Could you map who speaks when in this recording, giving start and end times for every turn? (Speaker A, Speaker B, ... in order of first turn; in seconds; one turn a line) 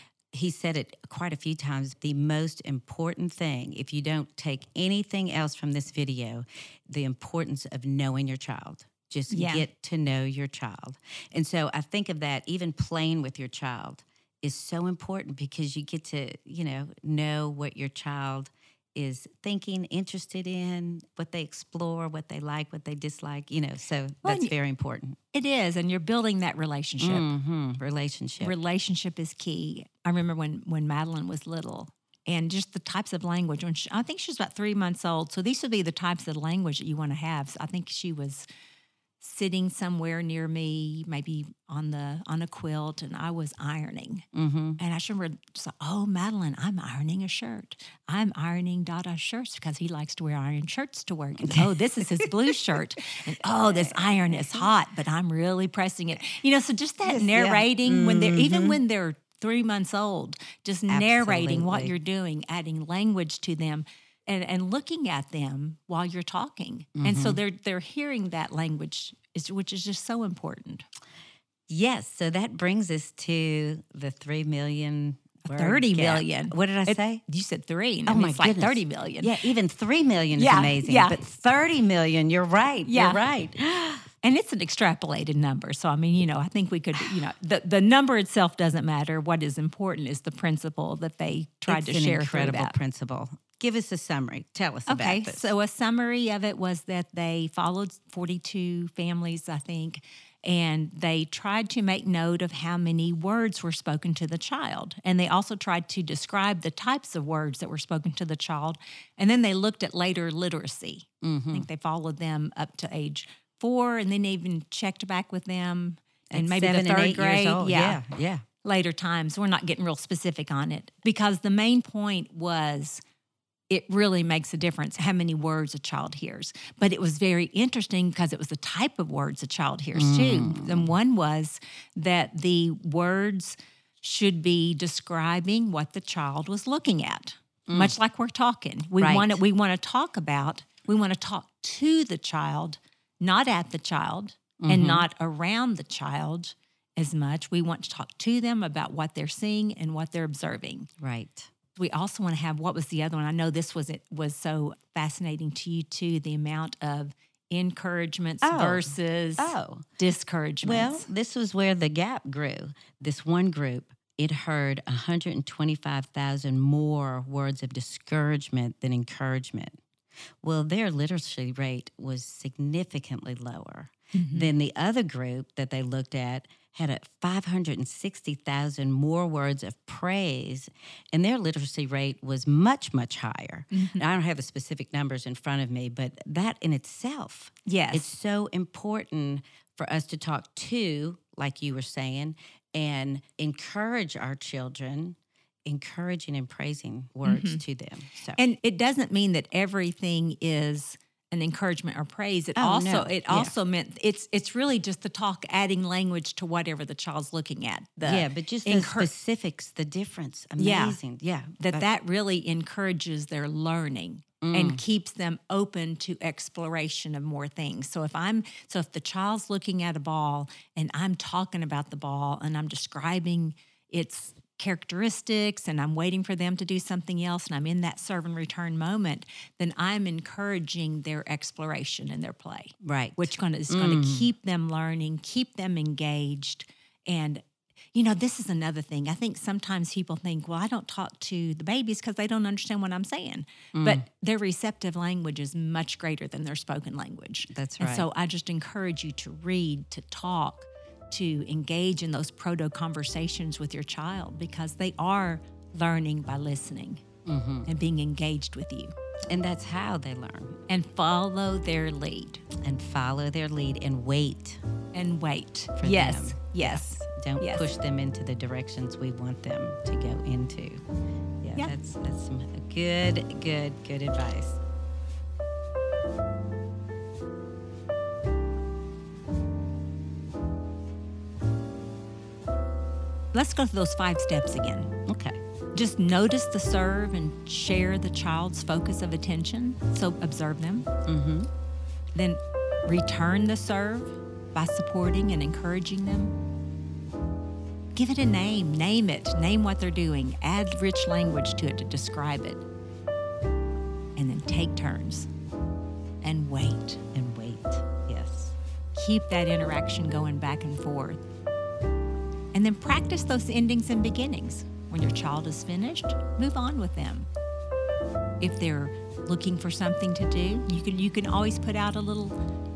Speaker A: 0.3-25.2
Speaker B: 9.3-9.7
Speaker B: 24.2-24.5
Speaker B: 25.3-27.3
Speaker A: 27.0-28.5
Speaker B: 28.4-38.5
Speaker B: 39.2-44.2
Speaker A: 44.3-44.8
Speaker B: 44.8-70.8
Speaker A: 51.4-52.5
Speaker A: 53.5-54.7
Speaker A: 57.0-58.8
Speaker A: 60.9-61.9
Speaker A: 67.0-67.4
Speaker A: 71.7-77.2
Speaker B: 75.4-79.4
Speaker A: 78.1-84.0
Speaker B: 80.3-81.2
Speaker B: 82.8-83.2
Speaker B: 84.2-92.8
Speaker A: 91.7-95.5
Speaker B: 94.9-118.0
Speaker A: 111.2-111.7
Speaker A: 116.3-118.4
Speaker B: 118.6-123.0
Speaker B: 123.7-150.9
Speaker A: 129.9-130.9
Speaker A: 137.7-137.9
Speaker A: 139.0-139.4
Speaker A: 144.6-145.1
Speaker A: 151.0-151.5
Speaker B: 151.8-161.1
Speaker A: 158.4-159.8
Speaker A: 160.6-169.8
Speaker A: 170.4-198.4
Speaker B: 174.1-174.5
Speaker B: 183.7-184.0
Speaker B: 187.7-188.1
Speaker B: 197.2-197.6
Speaker B: 198.4-209.1
Speaker A: 202.6-203.5
Speaker A: 208.0-211.8
Speaker B: 210.6-211.0
Speaker B: 211.6-237.4
Speaker A: 214.4-214.8
Speaker A: 232.8-234.3
Speaker B: 237.9-257.0
Speaker A: 243.7-244.0
Speaker A: 247.5-248.1
Speaker A: 257.2-257.7
Speaker B: 257.6-258.9
Speaker A: 259.3-260.6
Speaker B: 260.7-262.4
Speaker A: 262.6-264.6
Speaker B: 264.9-267.7
Speaker A: 265.8-270.8
Speaker A: 271.4-274.6
Speaker B: 283.3-284.9
Speaker A: 285.1-285.4
Speaker B: 285.7-290.9
Speaker A: 291.1-291.5
Speaker B: 292.1-296.3
Speaker B: 297.9-302.6
Speaker B: 304.2-305.3
Speaker B: 306.2-307.0
Speaker A: 307.1-308.6
Speaker B: 308.9-311.2
Speaker B: 312.5-317.3
Speaker B: 318.4-322.4